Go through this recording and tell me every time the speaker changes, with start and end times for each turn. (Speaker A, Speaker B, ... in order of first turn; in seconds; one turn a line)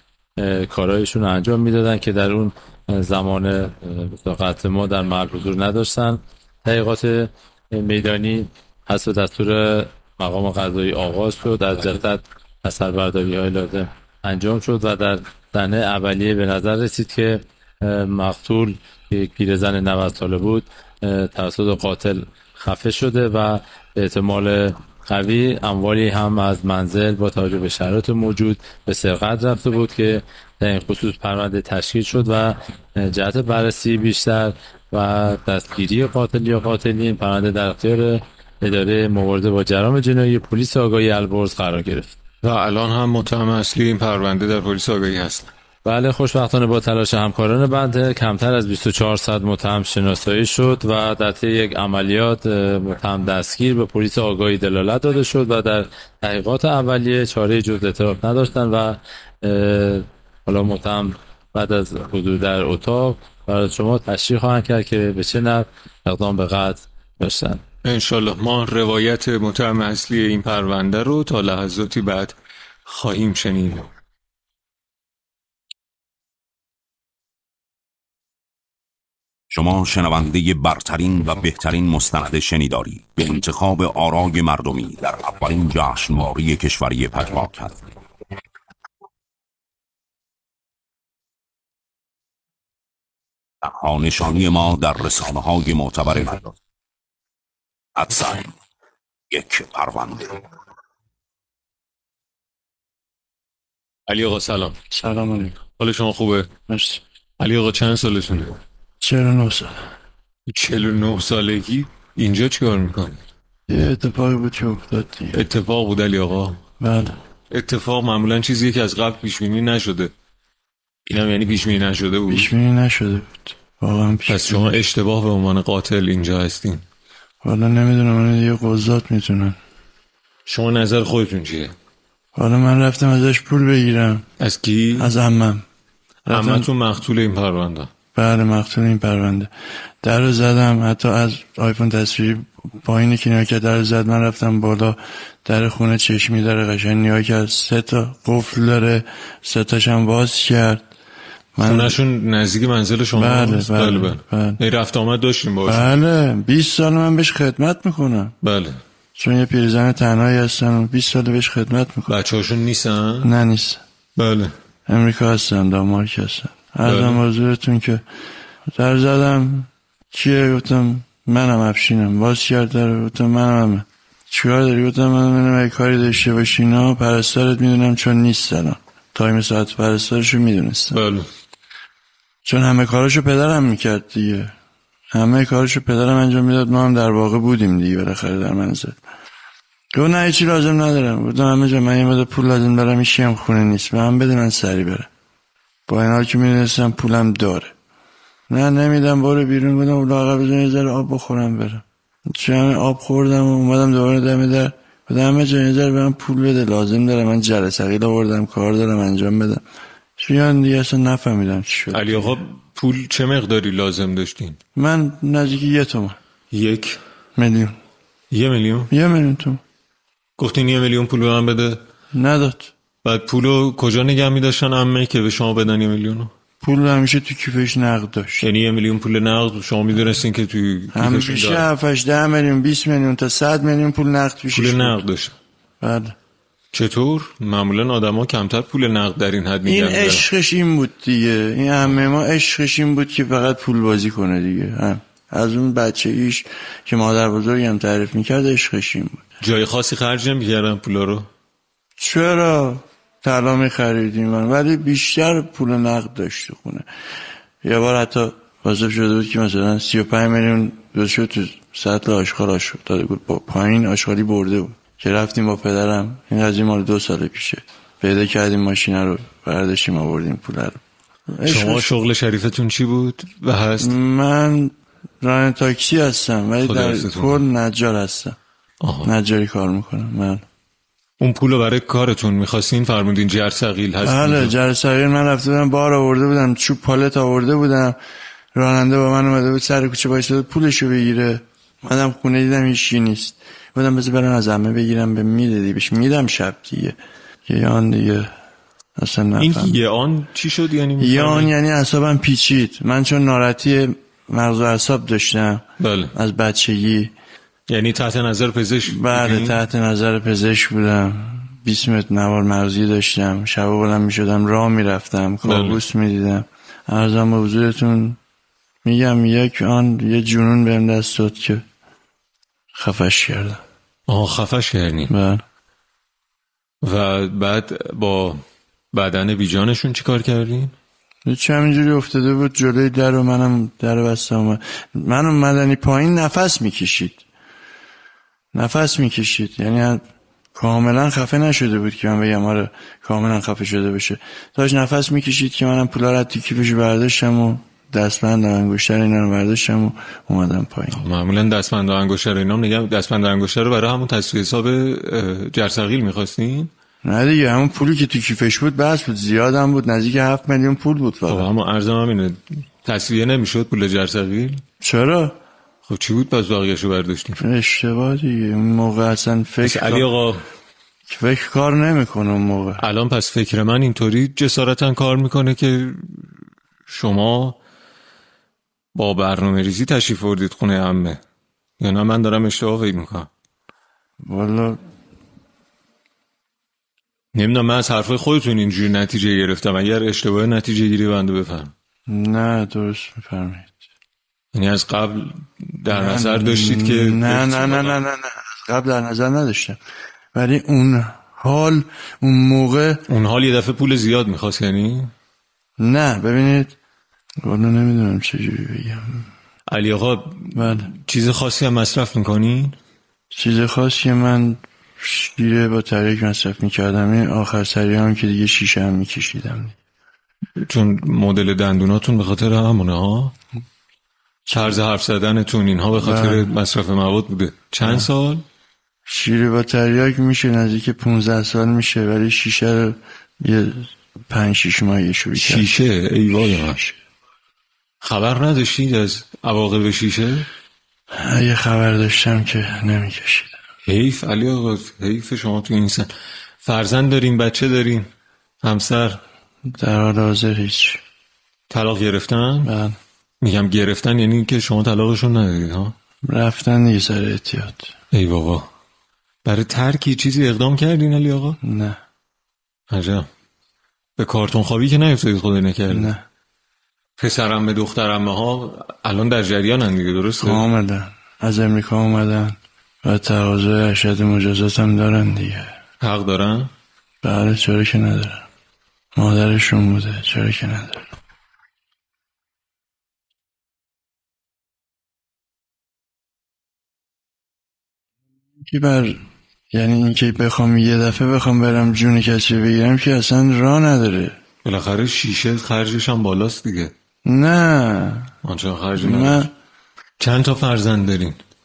Speaker A: 0.4-42.1
Speaker B: 42.4-45.5
Speaker A: 45.8-67.6
Speaker B: 67.8-72.3
Speaker B: 72.8-73.8
Speaker C: 79.5-87.9
Speaker C: 93.6-96.5
Speaker C: 98.0-98.5
Speaker C: 99.3-100.4
Speaker B: 104.1-104.8
Speaker D: 104.9-105.6
Speaker B: 105.7-106.5
Speaker D: 106.7-107.0
Speaker B: 107.4-108.6
Speaker D: 109.0-109.7
Speaker B: 110.5-113.2
Speaker D: 113.7-115.4
Speaker B: 115.3-116.6
Speaker D: 116.8-117.1
Speaker B: 117.5-120.1
Speaker B: 121.1-122.5
Speaker D: 122.3-124.8
Speaker B: 124.3-126.8
Speaker D: 127.4-129.6
Speaker B: 130.4-131.7
Speaker D: 132.3-134.2
Speaker B: 134.4-135.1
Speaker D: 135.0-135.6
Speaker D: 136.3-136.7
Speaker B: 136.3-137.9
Speaker D: 138.1-139.5
Speaker D: 140.0-150.8
Speaker D: 151.5-152.0
Speaker B: 151.6-155.9
Speaker D: 153.1-154.6
Speaker D: 155.7-158.3
Speaker B: 158.4-158.8
Speaker D: 159.2-162.1
Speaker B: 162.1-163.3
Speaker D: 163.2-163.8
Speaker B: 164.2-164.5
Speaker D: 164.9-168.0
Speaker B: 166.8-167.2
Speaker D: 168.7-181.0
Speaker B: 180.9-181.3
Speaker D: 182.4-184.5
Speaker D: 185.1-189.0
Speaker D: 189.9-195.1
Speaker D: 195.9-197.7
Speaker D: 198.5-209.6
Speaker D: 210.2-212.4
Speaker B: 211.9-214.6
Speaker D: 214.8-216.2
Speaker B: 216.5-217.0
Speaker D: 217.3-217.8
Speaker B: 218.3-218.9
Speaker D: 218.9-219.6
Speaker B: 220.4-221.8
Speaker D: 222.1-222.7
Speaker B: 223.0-226.3
Speaker D: 226.6-228.5
Speaker B: 228.4-231.7
Speaker D: 230.9-235.0
Speaker B: 234.5-235.3
Speaker D: 235.8-236.2
Speaker B: 236.7-240.2
Speaker D: 239.7-249.2
Speaker B: 249.4-251.3
Speaker D: 252.0-256.9
Speaker D: 257.6-271.9
Speaker B: 271.4-273.9
Speaker D: 273.8-278.4
Speaker B: 276.6-277.4
Speaker B: 278.8-279.1
Speaker D: 279.0-280.4
Speaker B: 281.2-284.5
Speaker D: 284.0-288.0
Speaker D: 288.5-298.3
Speaker D: 299.0-299.8
Speaker B: 299.4-301.5
Speaker D: 301.0-307.1
Speaker B: 305.8-306.1
Speaker B: 307.7-309.6
Speaker D: 308.9-318.2
Speaker B: 315.4-315.8
Speaker D: 318.8-321.6
Speaker D: 322.7-323.6
Speaker B: 324.1-325.1
Speaker D: 325.1-325.4
Speaker B: 326.8-328.4
Speaker B: 328.9-330.7
Speaker D: 331.2-337.2
Speaker D: 338.5-340.0
Speaker D: 340.5-351.0
Speaker B: 350.9-356.7
Speaker D: 357.0-361.5
Speaker B: 361.3-364.6
Speaker D: 364.8-365.4
Speaker B: 365.9-367.4
Speaker D: 367.4-370.1
Speaker B: 369.6-370.4
Speaker D: 371.1-372.8
Speaker B: 372.8-376.1
Speaker B: 376.9-377.6
Speaker B: 378.9-381.2
Speaker B: 381.8-383.3
Speaker D: 384.2-384.8
Speaker B: 387.3-391.7
Speaker D: 392.1-393.8
Speaker B: 394.5-398.0
Speaker D: 395.9-399.8
Speaker D: 400.3-403.0
Speaker B: 403.1-405.1
Speaker D: 405.8-406.7
Speaker D: 407.4-409.3
Speaker B: 409.7-412.8
Speaker D: 410.5-410.9
Speaker D: 413.3-419.8
Speaker B: 420.6-423.3
Speaker B: 424.5-428.4
Speaker D: 426.0-426.5
Speaker D: 429.1-435.7
Speaker B: 435.3-436.8
Speaker B: 438.0-440.5
Speaker D: 441.1-443.5
Speaker B: 443.9-446.1
Speaker B: 446.6-448.1
Speaker B: 448.6-449.2
Speaker D: 449.7-451.0
Speaker B: 451.7-452.7
Speaker D: 452.6-453.0
Speaker B: 453.4-455.9
Speaker D: 456.2-457.9
Speaker B: 458.1-458.7
Speaker B: 459.4-461.6
Speaker D: 461.6-462.0
Speaker B: 462.9-463.3
Speaker B: 464.2-466.1
Speaker D: 465.9-466.2
Speaker B: 467.2-470.6
Speaker D: 470.4-475.7
Speaker B: 476.0-476.7
Speaker D: 477.2-478.4
Speaker D: 479.1-481.1
Speaker D: 488.6-494.4
Speaker B: 494.6-496.9
Speaker D: 497.2-498.3
Speaker B: 498.4-499.5
Speaker D: 499.0-499.5
Speaker B: 500.2-501.4